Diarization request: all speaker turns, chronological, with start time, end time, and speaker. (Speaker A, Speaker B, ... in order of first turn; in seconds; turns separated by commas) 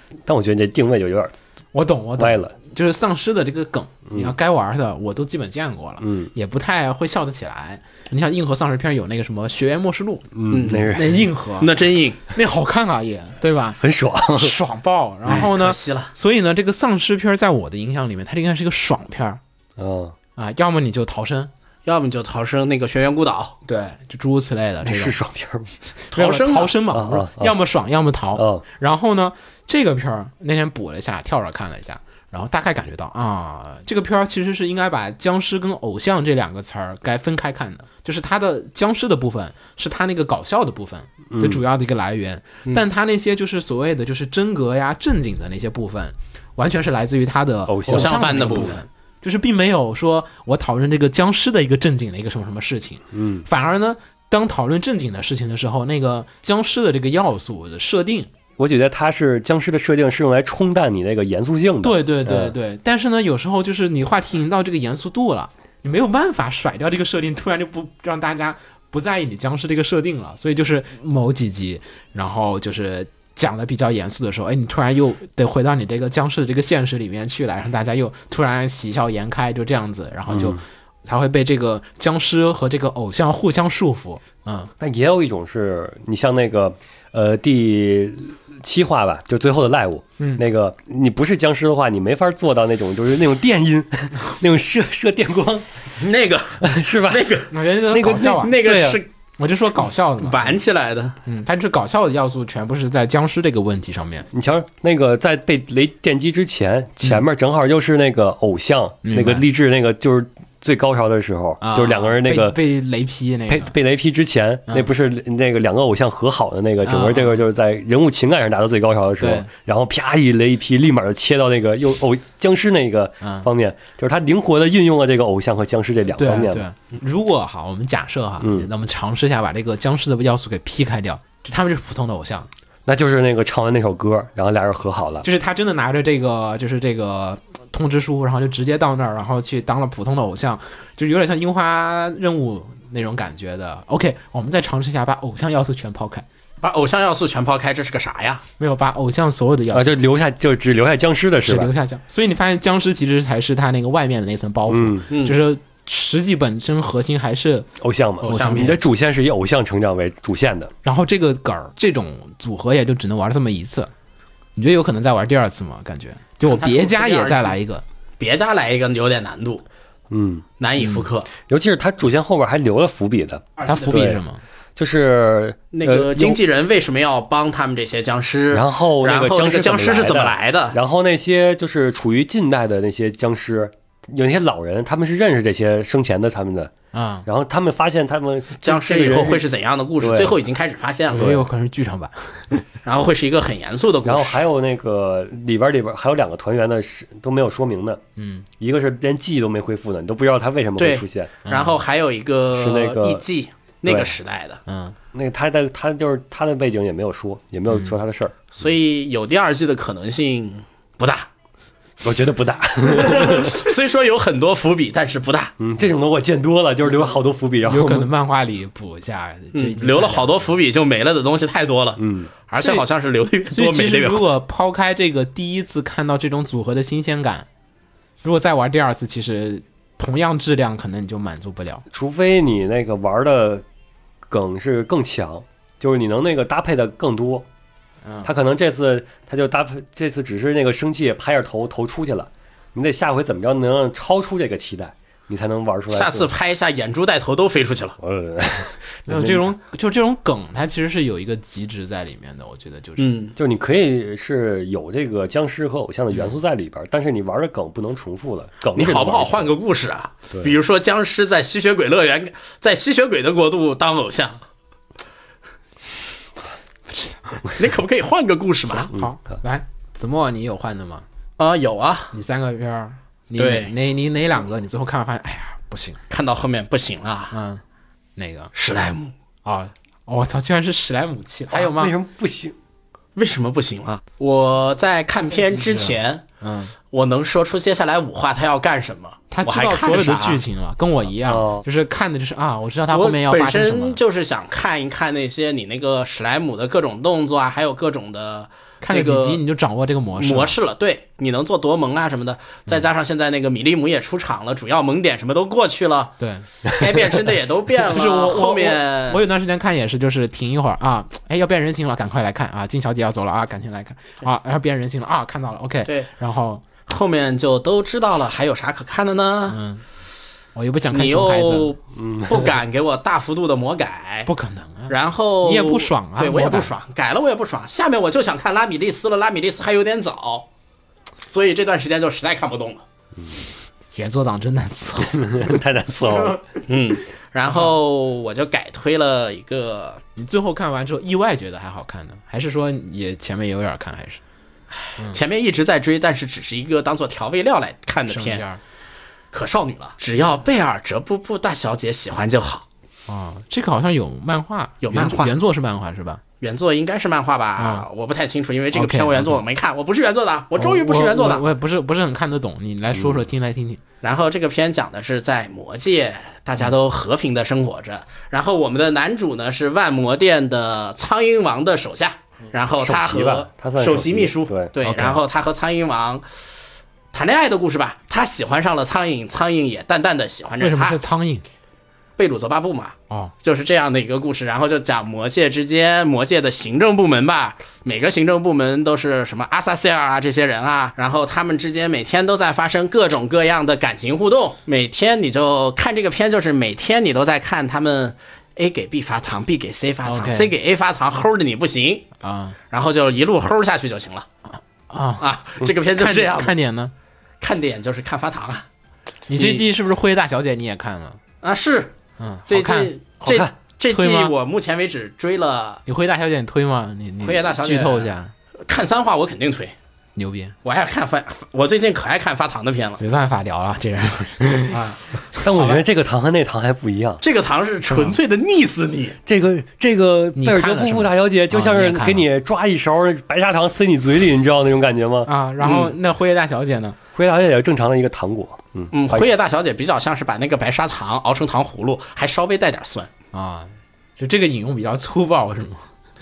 Speaker A: 0.3-1.3, Speaker B: 1.7-10.3, Speaker A: 2.2-2.5, Speaker A: 4.1-4.3, Speaker A: 6.0-6.3, Speaker A: 10.3-11.3, Speaker C: 10.5-11.0, Speaker B: 10.9-11.7, Speaker C: 11.6-12.2, Speaker B: 12.3-19.4, Speaker A: 13.8-14.6, Speaker C: 15.3-16.1, Speaker A: 19.8-20.1, Speaker B: 20.4-21.5, Speaker C: 21.9-23.6, Speaker B: 23.7-25.2, Speaker A: 24.8-25.7, Speaker B: 26.1-58.3, Speaker C: 26.1-26.8, Speaker A: 26.9-27.6, Speaker A: 28.4-28.6, Speaker A: 41.3-41.6, Speaker A: 47.7-48.7, Speaker C: 47.9-48.8, Speaker A: 53.1-53.5, Speaker A: 58.6-62.5, Speaker B: 61.8-84.7, Speaker A: 80.3-80.6, Speaker A: 84.8-96.0, Speaker B: 90.2-90.4, Speaker C: 96.0-97.5, Speaker A: 96.6-97.3, Speaker B: 97.5-98.5, Speaker A: 97.9-99.0, Speaker C: 98.1-99.1, Speaker B: 99.4-100.6, Speaker C: 100.2-101.2, Speaker B: 101.2-104.3, Speaker A: 104.3-112.6, Speaker B: 109.0-109.5, Speaker B: 111.6-113.7, Speaker A: 113.5-126.7, Speaker B: 116.8-117.5, Speaker B: 119.2-119.5, Speaker B: 123.2-123.5, Speaker B: 126.1-132.5, Speaker A: 128.4-128.7, Speaker A: 132.9-135.2, Speaker B: 135.2-146.3, Speaker C: 146.6-148.4, Speaker B: 148.6-150.0, Speaker A: 149.7-151.7, Speaker B: 151.4-157.7, Speaker A: 154.7-155.0, Speaker C: 155.1-155.4, Speaker A: 157.8-160.7, Speaker C: 158.2-158.8, Speaker B: 158.3-158.8, Speaker B: 160.8-163.9, Speaker B: 164.6-167.8, Speaker C: 166.4-167.6, Speaker C: 168.2-169.6, Speaker A: 170.1-170.4, Speaker C: 170.6-171.3, Speaker B: 170.8-171.1, Speaker A: 171.5-174.2, Speaker C: 173.6-174.1, Speaker B: 173.7-174.4, Speaker A: 174.8-176.4, Speaker C: 175.7-180.8, Speaker A: 178.5-186.7, Speaker B: 186.9-187.3, Speaker A: 187.2-189.4, Speaker C: 188.6-191.4, Speaker A: 190.0-190.4, Speaker B: 191.1-192.7, Speaker A: 191.1-191.4, Speaker C: 192.8-194.4, Speaker A: 194.1-198.0, Speaker B: 198.2-198.5, Speaker A: 198.6-201.4, Speaker C: 200.8-204.6, Speaker B: 201.5-201.8, Speaker A: 202.5-203.2, Speaker A: 203.8-204.2, Speaker B: 204.7-205.0, Speaker A: 205.1-208.3, Speaker B: 207.7-208.0, Speaker C: 208.5-211.3, Speaker A: 212.0-213.6, Speaker C: 212.8-215.5, Speaker A: 215.6-218.1, Speaker B: 217.6-220.5, Speaker C: 219.5-224.3, Speaker A: 222.0-222.3, Speaker B: 222.6-222.8, Speaker B: 223.5-227.5, Speaker B: 228.2-231.8, Speaker A: 231.9-233.7, Speaker A: 234.3-237.5, Speaker B: 238.0-238.3, Speaker A: 238.2-246.3, Speaker C: 245.9-248.0, Speaker A: 248.0-249.5, Speaker B: 249.1-253.2, Speaker C: 253.0-253.3, Speaker A: 253.4-259.5, Speaker C: 258.8-264.4, Speaker B: 266.9-267.4, Speaker C: 267.6-268.9, Speaker B: 268.7-271.1, Speaker C: 271.4-272.1, Speaker B: 272.1-276.0, Speaker C: 273.4-273.7, Speaker C: 276.1-277.4, Speaker B: 277.3-277.6, Speaker B: 278.2-278.5, Speaker C: 278.6-279.1, Speaker B: 279.4-282.0, Speaker A: 281.5-282.6, Speaker C: 283.2-286.2, Speaker B: 285.5-286.7, Speaker C: 286.9-290.4, Speaker B: 289.3-294.0, Speaker A: 291.2-291.6, Speaker C: 292.9-299.4, Speaker B: 298.8-300.6, Speaker C: 300.2-309.2, Speaker B: 306.2-306.5, Speaker B: 307.9-316.6, Speaker C: 316.8-319.6, Speaker B: 319.5-319.8, Speaker B: 320.6-321.7, Speaker C: 320.9-324.3, Speaker A: 321.9-322.5, Speaker B: 324.3-326.7, Speaker C: 324.9-330.5, Speaker C: 331.3-332.9, Speaker B: 333.9-336.4, Speaker A: 335.1-336.4, Speaker C: 336.7-340.0, Speaker B: 340.2-344.2, Speaker C: 344.8-348.4, Speaker B: 348.1-348.6, Speaker C: 349.3-352.6, Speaker B: 353.1-356.2, Speaker C: 354.8-355.3, Speaker C: 356.4-361.5, Speaker B: 357.6-357.9, Speaker B: 358.7-359.4, Speaker B: 360.6-363.8, Speaker C: 364.0-376.3, Speaker A: 372.8-375.1, Speaker B: 374.8-375.2, Speaker C: 377.1-381.0, Speaker B: 380.6-381.4, Speaker C: 382.2-402.1, Speaker B: 400.1-400.5, Speaker B: 402.2-402.6, Speaker C: 402.7-404.3, Speaker B: 404.9-405.3, Speaker C: 405.2-406.6, Speaker B: 405.9-406.9, Speaker C: 407.4-408.7, Speaker B: 409.3-411.2, Speaker C: 409.4-409.7, Speaker C: 411.4-411.9, Speaker B: 412.2-412.9, Speaker C: 412.5-415.8, Speaker A: 413.3-413.5, Speaker B: 413.9-414.3, Speaker B: 415.9-418.3, Speaker C: 417.2-418.1, Speaker C: 418.7-419.8, Speaker B: 420.2-420.6, Speaker C: 420.6-423.0, Speaker B: 423.0-425.8, Speaker A: 425.4-427.2, Speaker C: 427.2-429.2, Speaker B: 427.9-428.2, Speaker A: 429.3-435.3, Speaker B: 430.4-432.3, Speaker B: 435.3-437.0, Speaker C: 435.6-435.9, Speaker A: 437.1-439.3, Speaker C: 438.9-443.1, Speaker B: 443.3-445.9